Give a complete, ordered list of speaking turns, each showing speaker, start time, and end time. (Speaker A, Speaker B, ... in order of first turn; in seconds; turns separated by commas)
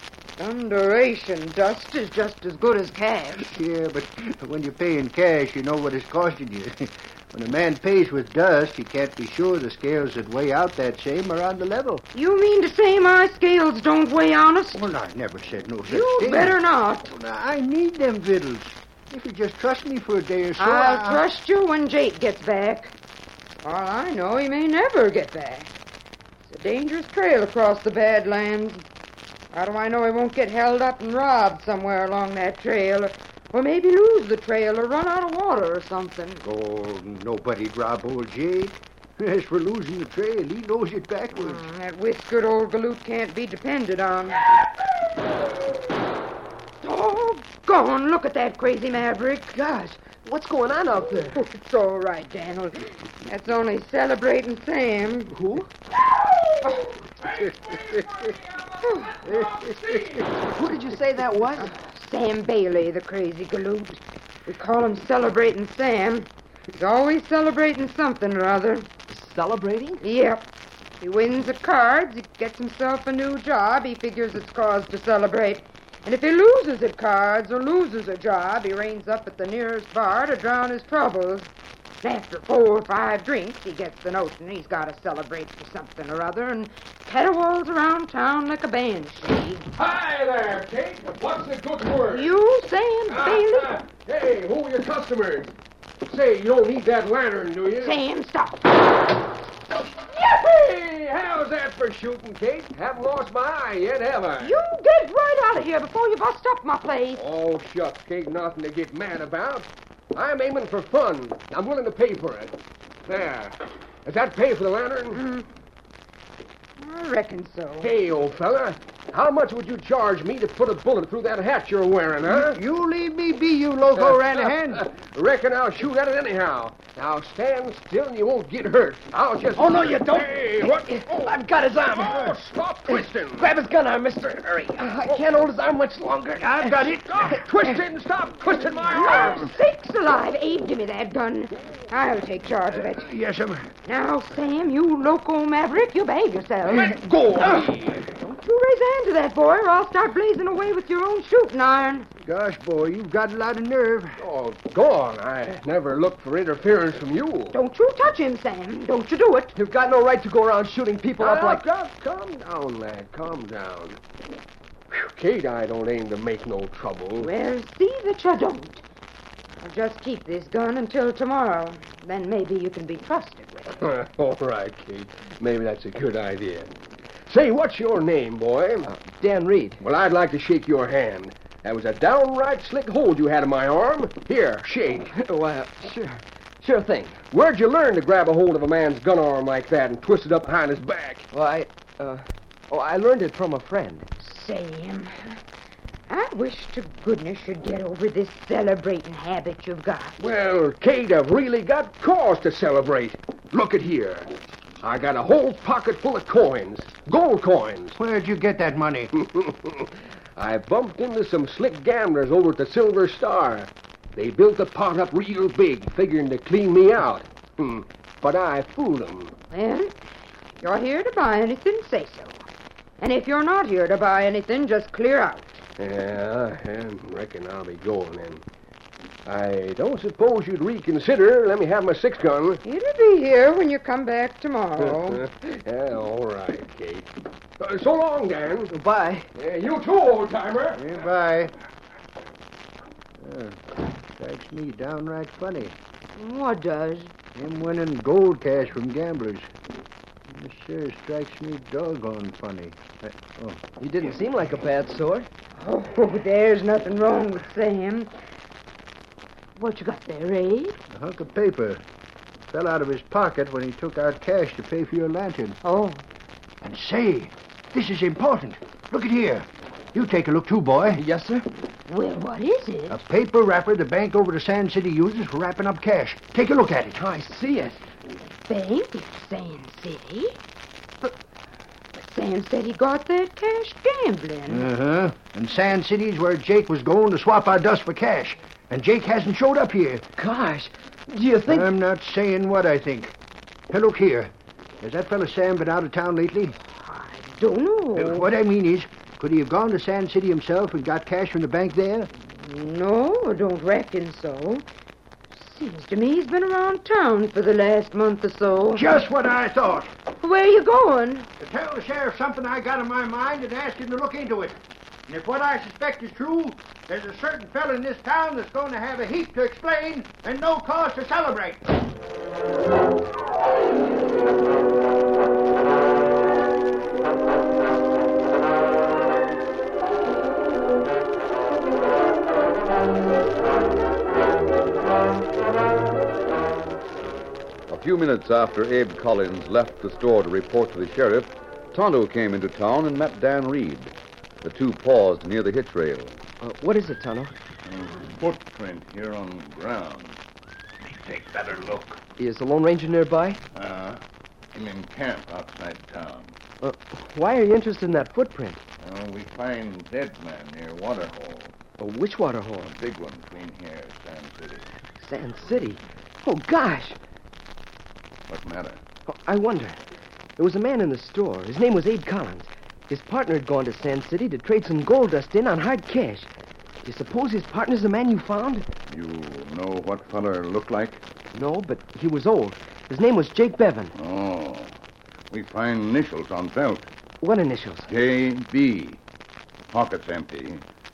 Speaker A: 0.4-3.6, Speaker B: 3.4-12.0, Speaker A: 12.1-14.8, Speaker B: 14.7-21.2, Speaker A: 15.9-17.1, Speaker A: 20.6-22.9, Speaker A: 23.6-25.8, Speaker A: 26.4-28.8, Speaker A: 29.5-36.4, Speaker B: 36.4-41.6, Speaker A: 41.3-44.6, Speaker A: 46.8-49.6, Speaker C: 49.5-51.4, Speaker A: 51.3-55.4, Speaker C: 55.4-55.7, Speaker A: 56.6-56.9, Speaker D: 57.2-60.4, Speaker A: 58.8-59.2, Speaker B: 59.2-60.1, Speaker C: 60.5-61.7, Speaker A: 61.6-68.9, Speaker C: 69.1-70.0, Speaker A: 70.0-70.5, Speaker A: 71.0-81.5, Speaker A: 82.0-89.7, Speaker D: 89.8-92.3, Speaker A: 92.1-93.8, Speaker D: 93.1-95.5, Speaker D: 96.0-98.0, Speaker A: 97.8-98.8, Speaker D: 100.0-104.6, Speaker A: 104.4-107.3, Speaker D: 107.2-115.2, Speaker A: 115.1-115.5, Speaker A: 116.8-117.9, Speaker D: 117.8-122.6, Speaker B: 122.2-124.9, Speaker D: 124.0-133.5, Speaker C: 129.5-132.3, Speaker B: 132.0-132.3, Speaker C: 132.9-136.7, Speaker D: 135.0-136.4, Speaker B: 136.4-137.4, Speaker D: 137.1-139.5, Speaker C: 137.4-137.8, Speaker A: 138.9-143.1, Speaker B: 142.8-143.7, Speaker A: 143.8-152.1, Speaker D: 146.7-148.0, Speaker B: 152.2-154.2, Speaker D: 154.2-157.6, Speaker A: 157.5-159.6, Speaker C: 159.6-161.7, Speaker D: 161.2-164.0, Speaker D: 164.9-167.3, Speaker A: 167.2-168.8, Speaker A: 169.6-173.8, Speaker D: 173.8-176.7, Speaker D: 177.3-178.9, Speaker C: 178.9-179.8, Speaker D: 179.8-185.2, Speaker C: 185.1-187.2, Speaker D: 187.3-191.3, Speaker C: 191.3-194.1, Speaker A: 194.2-195.4, Speaker A: 196.1-200.2, Speaker D: 200.2-208.0, Speaker B: 208.0-209.1, Speaker D: 209.1-219.3, Speaker A: 219.5-219.9, Speaker A: 220.6-222.5, Speaker A: 223.0-225.6, Speaker D: 225.8-228.4, Speaker D: 229.3-232.6, Speaker A: 232.6-235.2, Speaker D: 235.0-238.8, Speaker C: 238.7-239.3, Speaker D: 239.3-240.9, Speaker B: 240.8-241.5, Speaker B: 243.2-245.8, Speaker A: 246.2-247.1, Speaker B: 247.3-249.5, Speaker B: 250.3-253.6, Speaker C: 253.8-255.3, Speaker A: 255.6-258.1, Speaker A: 259.6-260.8, Speaker B: 260.9-261.8, Speaker B: 262.5-265.6, Speaker A: 265.6-266.0, Speaker B: 266.6-271.0, Speaker C: 270.9-271.5, Speaker A: 271.9-273.0, Speaker B: 272.9-277.0, Speaker C: 277.0-277.8, Speaker A: 278.5-280.4, Speaker A: 282.0-284.7, Speaker B: 284.5-290.1, Speaker C: 290.2-291.7, Speaker B: 291.5-293.1, Speaker B: 293.7-296.6, Speaker A: 296.6-298.3, Speaker B: 297.9-302.1, Speaker A: 302.3-304.7, Speaker A: 305.3-308.9, Speaker B: 308.7-309.9, Speaker A: 310.2-311.3, Speaker B: 311.4-321.8, Speaker E: 337.7-346.2, Speaker C: 346.4-347.3, Speaker F: 347.6-350.2, Speaker F: 350.9-352.0, Speaker C: 352.2-353.4, Speaker F: 353.5-354.0, Speaker F: 354.5-356.4, Speaker C: 356.6-358.6, Speaker F: 358.8-361.6, Speaker C: 361.8-362.7, Speaker F: 362.6-364.7, Speaker C: 365.0-367.0, Speaker F: 368.3-368.8, Speaker C: 369.1-369.8, Speaker C: 370.4-376.3, Speaker C: 376.8-378.7, Speaker F: 378.9-381.0, Speaker C: 381.3-383.9, Speaker F: 383.9-384.8, Speaker F: 385.3-386.9, Speaker C: 387.2-387.9, Speaker F: 387.9-389.0, Speaker F: 389.7-390.6